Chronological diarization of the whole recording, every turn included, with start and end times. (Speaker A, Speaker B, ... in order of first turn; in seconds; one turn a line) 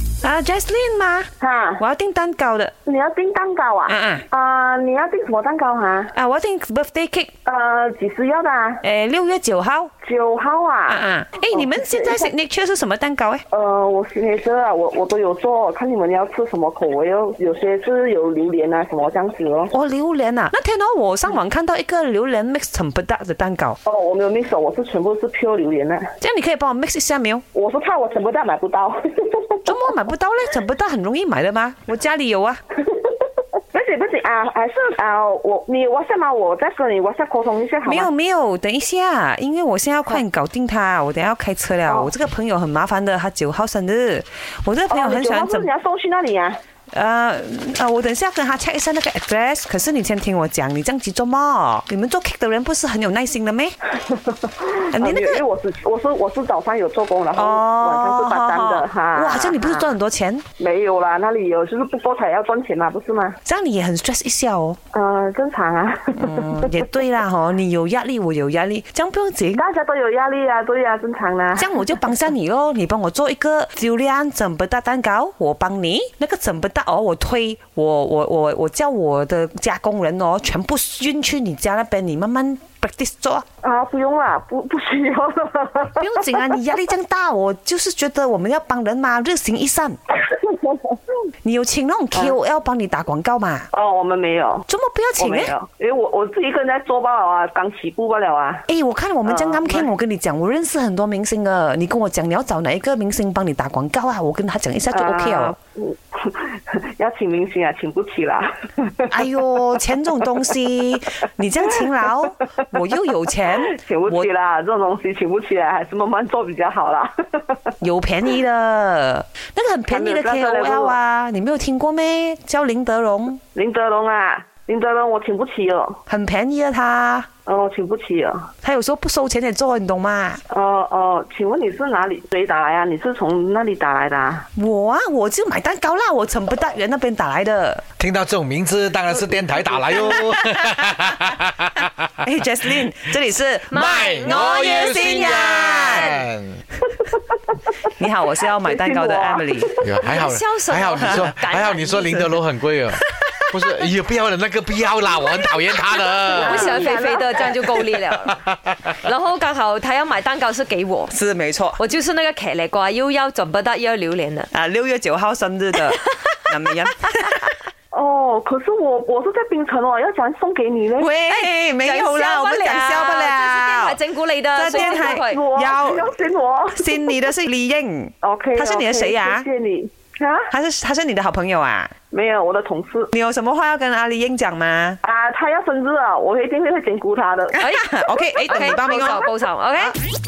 Speaker A: 0.2-2.7
Speaker B: 1.4-1.8
Speaker B: 2.8-6.1
Speaker A: 3.9-4.2
Speaker A: 6.1-7.3
Speaker B: 7.4-8.8
Speaker A: 8.8-9.9
Speaker B: 10.0-12.3
Speaker A: 10.9-13.4
Speaker B: 13.5-19.7
Speaker A: 19.7-23.8
Speaker B: 23.8-26.1
Speaker A: 26.2-27.4
Speaker B: 27.5-29.7
Speaker A: 29.6-32.6
Speaker B: 32.9-38.1
Speaker A: 37.8-45.7
Speaker B: 41.9-42.1
Speaker B: 44.9-46.6
Speaker A: 46.9-53.7
Speaker B: 54.0-59.9
Speaker A: 54.9-55.4
Speaker A: 57.4-60.4
Speaker B: 60.6-63.4
Speaker A: 63.4-64.8
Speaker B: 64.9-66.7
Speaker A: 66.1-69.6
Speaker B: 69.5-72.0
Speaker A: 71.5-83.5
Speaker B: 83.6-86.4
Speaker A: 86.0-90.0
Speaker B: 90.3-91.0
Speaker A: 91.4-93.7
Speaker B: 93.7-94.7
Speaker A: 94.7-95.5
Speaker B: 95.2-98.7
Speaker A: 98.7-105.5
Speaker B: 99.2-99.9
Speaker B: 104.9-109.1
Speaker A: 109.1-114.3
Speaker B: 113.6-117.7
Speaker A: 117.8-123.4
Speaker B: 119.9-121.0
Speaker B: 123.5-126.0
Speaker A: 126.1-127.3
Speaker B: 127.5-128.5
Speaker A: 128.6-130.4
Speaker B: 130.5-134.5
Speaker A: 134.5-137.8
Speaker C: 138.0-141.9
Speaker A: 142.2-146.2
Speaker D: 143.7-146.3
Speaker C: 143.7-146.6
Speaker A: 147.9-149.7
Speaker B: 148.6-149.8
Speaker C: 149.8-156.7
Speaker D: 150.0-152.2
Speaker D: 156.3-158.4
Speaker B: 156.4-157.6
Speaker D: 159.0-161.1
Speaker A: 161.1-161.8
Speaker D: 161.8-164.5
Speaker A: 164.5-167.6
Speaker D: 166.1-166.3
Speaker B: 167.9-171.1
Speaker A: 171.0-174.0
Speaker D: 171.7-175.4
Speaker A: 174.5-176.1
Speaker B: 174.7-177.1
Speaker A: 176.7-179.4
Speaker B: 178.2-180.5
Speaker A: 180.5-181.9
Speaker B: 182.1-183.1
Speaker A: 183.1-185.0
Speaker B: 185.0-187.6
Speaker A: 187.5-189.9
Speaker D: 187.6-190.0